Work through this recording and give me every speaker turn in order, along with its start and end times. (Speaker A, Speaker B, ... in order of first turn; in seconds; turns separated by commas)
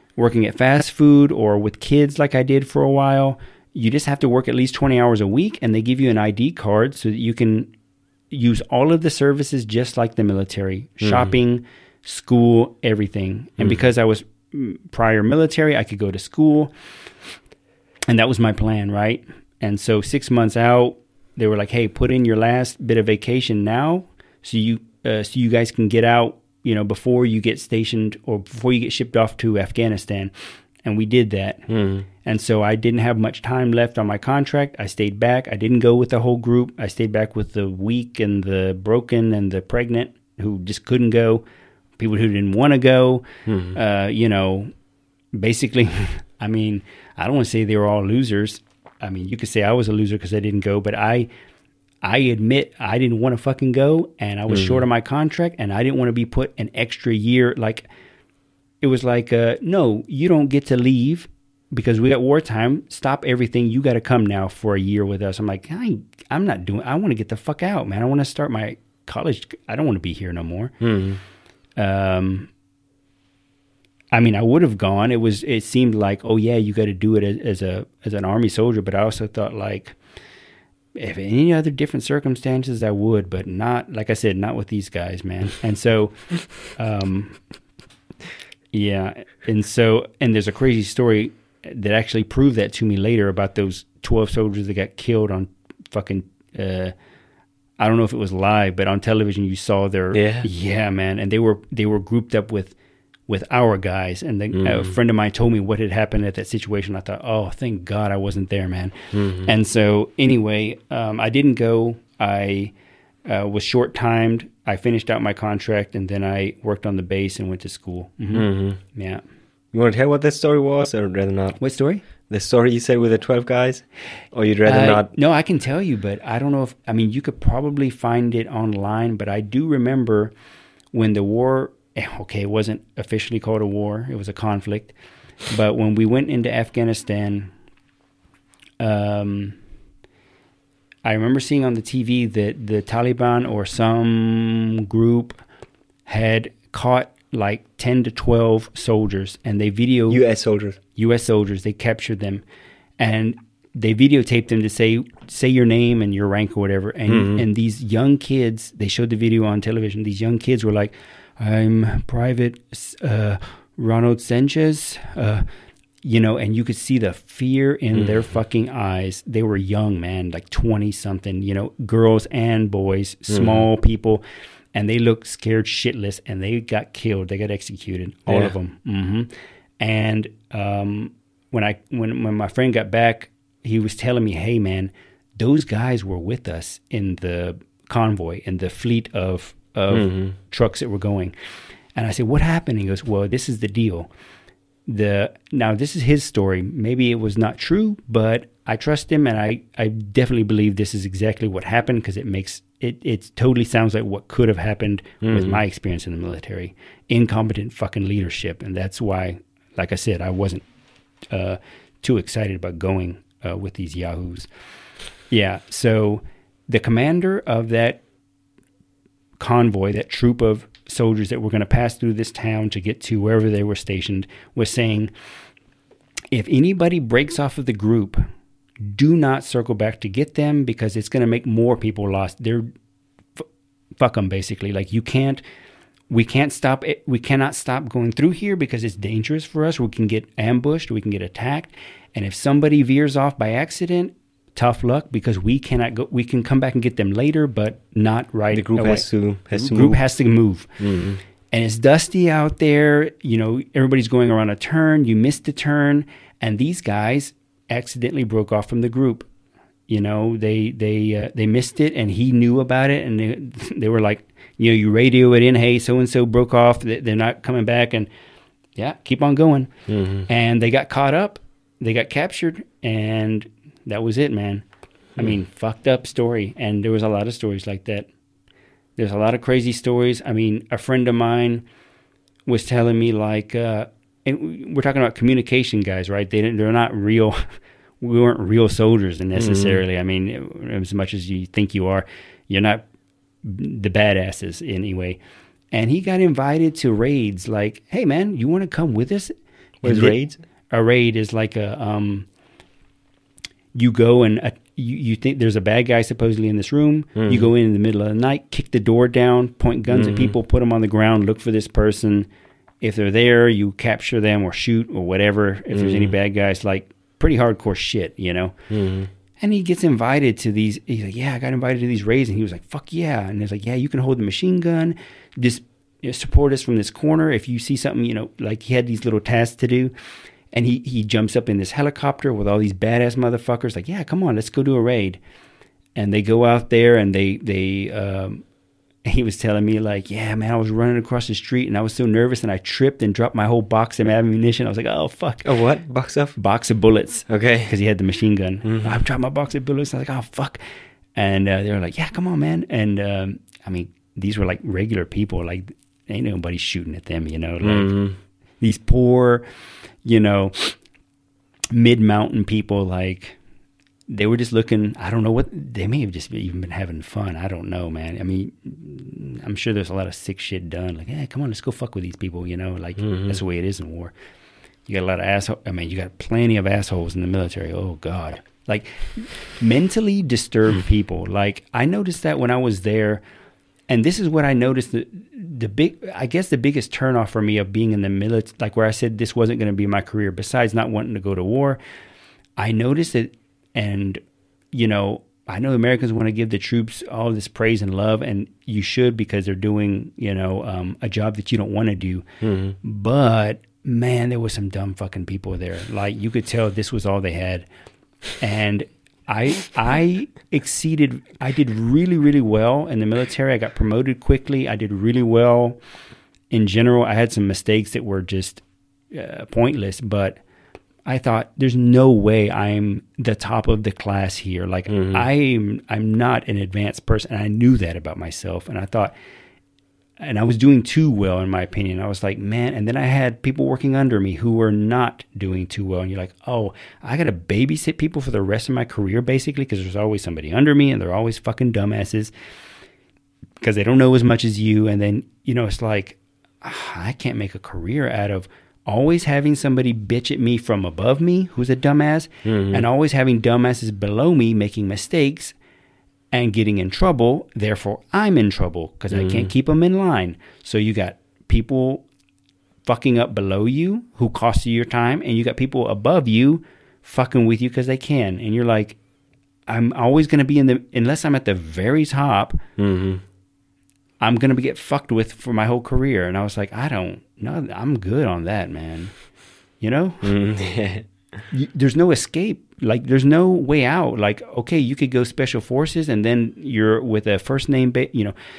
Speaker A: 0.1-7.7, Speaker A: 8.3-16.7, Speaker A: 18.1-30.3, Speaker A: 30.8-31.7, Speaker B: 31.7-32.0, Speaker A: 32.2-41.4, Speaker A: 42.0-44.7, Speaker B: 43.5-43.8, Speaker A: 45.3-51.3, Speaker A: 52.0-57.9, Speaker B: 54.5-54.8, Speaker A: 58.8-70.7, Speaker B: 70.8-71.2, Speaker A: 71.8-72.5, Speaker A: 74.1-80.0, Speaker A: 80.9-87.4, Speaker A: 88.7-96.9, Speaker A: 97.8-102.7, Speaker B: 100.1-100.5, Speaker A: 103.3-112.7, Speaker B: 104.5-104.9, Speaker B: 109.1-109.5, Speaker A: 113.2-119.2, Speaker B: 118.3-118.8, Speaker B: 119.7-121.6, Speaker A: 121.6-122.0, Speaker B: 122.3-125.1, Speaker A: 124.7-130.3, Speaker A: 130.9-134.9, Speaker A: 135.5-137.5, Speaker A: 138.8-139.6, Speaker A: 141.0-145.4, Speaker A: 146.1-150.2, Speaker B: 150.1-150.8, Speaker A: 150.9-152.4, Speaker A: 153.0-165.5, Speaker B: 157.1-157.4, Speaker A: 166.0-174.2, Speaker B: 167.9-168.2, Speaker B: 173.3-173.6, Speaker A: 174.7-191.3, Speaker B: 189.9-190.3, Speaker A: 191.9-194.1, Speaker A: 194.9-210.6, Speaker B: 205.2-205.6, Speaker A: 211.3-214.5, Speaker A: 215.3-218.0, Speaker A: 219.4-225.1, Speaker A: 226.3-228.2, Speaker A: 228.8-232.7, Speaker A: 234.0-235.4, Speaker A: 236.1-250.8, Speaker B: 248.5-250.0, Speaker B: 250.8-251.2, Speaker A: 251.5-259.3, Speaker A: 259.9-268.1, Speaker A: 268.8-269.7, Speaker B: 269.9-270.3, Speaker A: 270.3-274.6, Speaker A: 275.1-278.1, Speaker A: 279.0-281.6, Speaker A: 282.4-287.4, Speaker A: 288.0-292.8, Speaker B: 289.4-289.8, Speaker A: 293.4-295.2, Speaker A: 295.7-299.3, Speaker B: 299.8-300.4, Speaker A: 299.8-300.2, Speaker A: 300.7-302.3, Speaker A: 303.7-312.3, Speaker B: 307.1-307.5, Speaker B: 309.9-310.3, Speaker A: 312.8-318.6, Speaker B: 315.7-316.1, Speaker B: 318.7-319.1, Speaker A: 319.4-329.9, Speaker A: 330.5-335.2, Speaker A: 335.9-338.4, Speaker A: 339.0-345.5, Speaker B: 345.4-346.4, Speaker A: 346.4-350.6, Speaker B: 347.3-347.7, Speaker A: 351.1-358.1, Speaker B: 357.6-358.1, Speaker A: 358.6-359.4, Speaker A: 360.0-360.8, Speaker A: 361.7-363.4, Speaker A: 364.1-374.1, Speaker B: 373.1-373.3, Speaker A: 374.9-383.2, Speaker A: 383.9-391.8, Speaker A: 392.6-394.2, Speaker A: 394.7-402.2, Speaker B: 402.4-402.8, Speaker A: 402.8-407.7, Speaker A: 408.4-415.8, Speaker A: 416.5-420.4, Speaker A: 421.1-429.1, Speaker B: 424.9-425.2, Speaker A: 430.2-442.3, Speaker A: 443.6-455.5, Speaker B: 452.4-452.8, Speaker A: 456.3-462.0, Speaker B: 459.1-459.5, Speaker A: 462.8-469.0, Speaker A: 469.7-472.6, Speaker B: 472.8-473.2, Speaker A: 474.2-479.1, Speaker A: 479.8-480.3, Speaker B: 480.2-481.1, Speaker A: 481.5-488.3